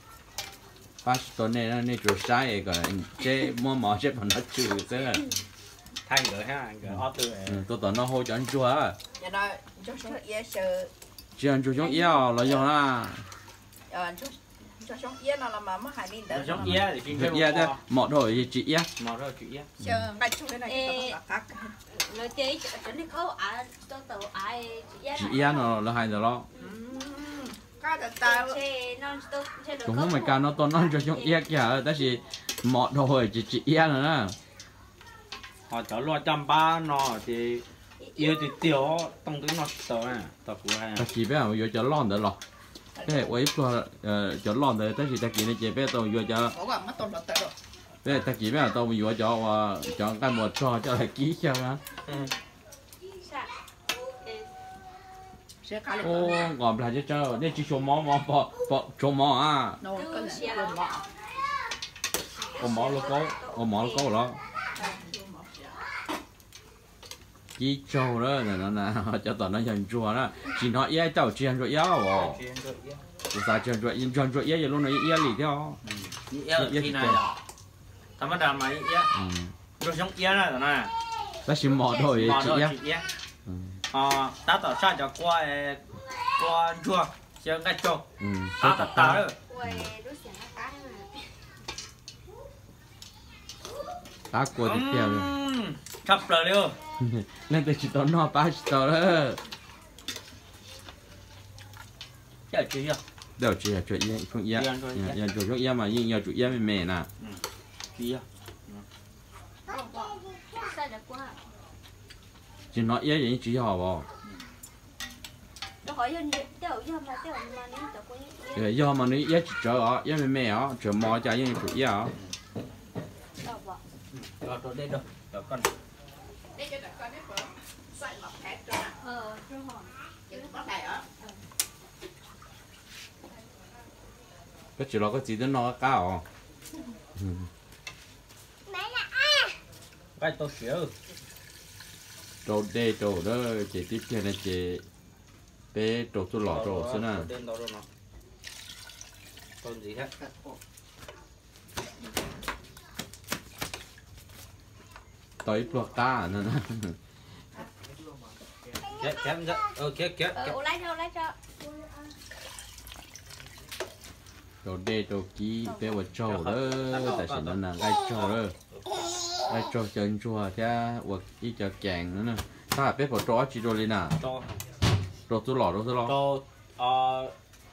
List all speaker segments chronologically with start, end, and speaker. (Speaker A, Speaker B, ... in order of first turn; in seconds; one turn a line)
Speaker A: 1.0-5.3
Speaker B: 6.1-7.6
Speaker A: 6.9-9.0
Speaker C: 9.2-10.9
Speaker A: 11.4-13.3
Speaker D: 11.9-12.2
Speaker C: 13.9-16.6
Speaker B: 16.3-17.8
Speaker A: 16.6-18.9
Speaker B: 19.0-19.7
Speaker C: 19.8-21.8
Speaker D: 20.6-21.2
Speaker D: 21.9-25.8
Speaker A: 25.1-26.5
Speaker C: 26.6-28.6
Speaker D: 28.2-31.4
Speaker A: 29.8-34.4
Speaker B: 35.7-37.6
Speaker D: 38.0-38.6
Speaker B: 38.2-41.1
Speaker A: 41.0-42.4
Speaker C: 43.0-43.3
Speaker A: 43.0-46.6
Speaker C: 46.5-47.5
Speaker A: 48.0-51.8
Speaker B: 52.1-52.3
Speaker D: 53.2-54.5
Speaker C: 55.6-56.5
Speaker A: 56.0-59.8
Speaker C: 59.8-61.0
Speaker D: 59.9-60.8
Speaker D: 62.3-64.2
Speaker A: 62.6-64.4
Speaker C: 64.8-65.7
Speaker A: 67.6-72.4
Speaker B: 72.1-73.0
Speaker A: 73.3-75.8
Speaker B: 75.8-77.4
Speaker A: 76.5-77.2
Speaker B: 78.2-79.1
Speaker A: 79.1-79.5
Speaker B: 79.8-80.9
Speaker A: 81.5-82.8
Speaker D: 81.9-82.5
Speaker B: 82.2-83.1
Speaker A: 83.5-83.8
Speaker B: 83.9-85.8
Speaker B: 86.4-88.0
Speaker A: 88.2-89.9
Speaker B: 88.6-89.4
Speaker D: 89.5-91.5
Speaker A: 94.3-95.3
Speaker B: 94.6-96.8
Speaker A: 97.0-99.4
Speaker B: 102.5-103.0
Speaker A: 103.4-107.1
Speaker B: 104.5-105.2
Speaker B: 108.0-108.8
Speaker D: 109.7-111.4
Speaker A: 112.7-114.1
Speaker D: 115.8-118.7
Speaker A: 118.5-122.1
Speaker D: 123.4-123.8
Speaker B: 124.1-125.7
Speaker C: 126.5-129.0
Speaker D: 129.0-129.9
Speaker C: 130.3-131.1
Speaker A: 134.8-136.2
Speaker A: 137.2-137.5
Speaker B: 140.2-140.9
Speaker A: 142.4-144.8
Speaker A: 145.7-147.3
Speaker B: 146.4-147.8
Speaker B: 149.6-150.1
Speaker A: 155.4-157.0
Speaker B: 158.9-160.6
Speaker D: 160.3-161.4
Speaker A: 164.6-168.6
Speaker D: 165.7-165.9
Speaker B: 166.2-168.3
Speaker A: 169.5-174.2
Speaker B: 174.2-174.6
Speaker A: 175.3-176.2
Speaker B: 176.0-177.3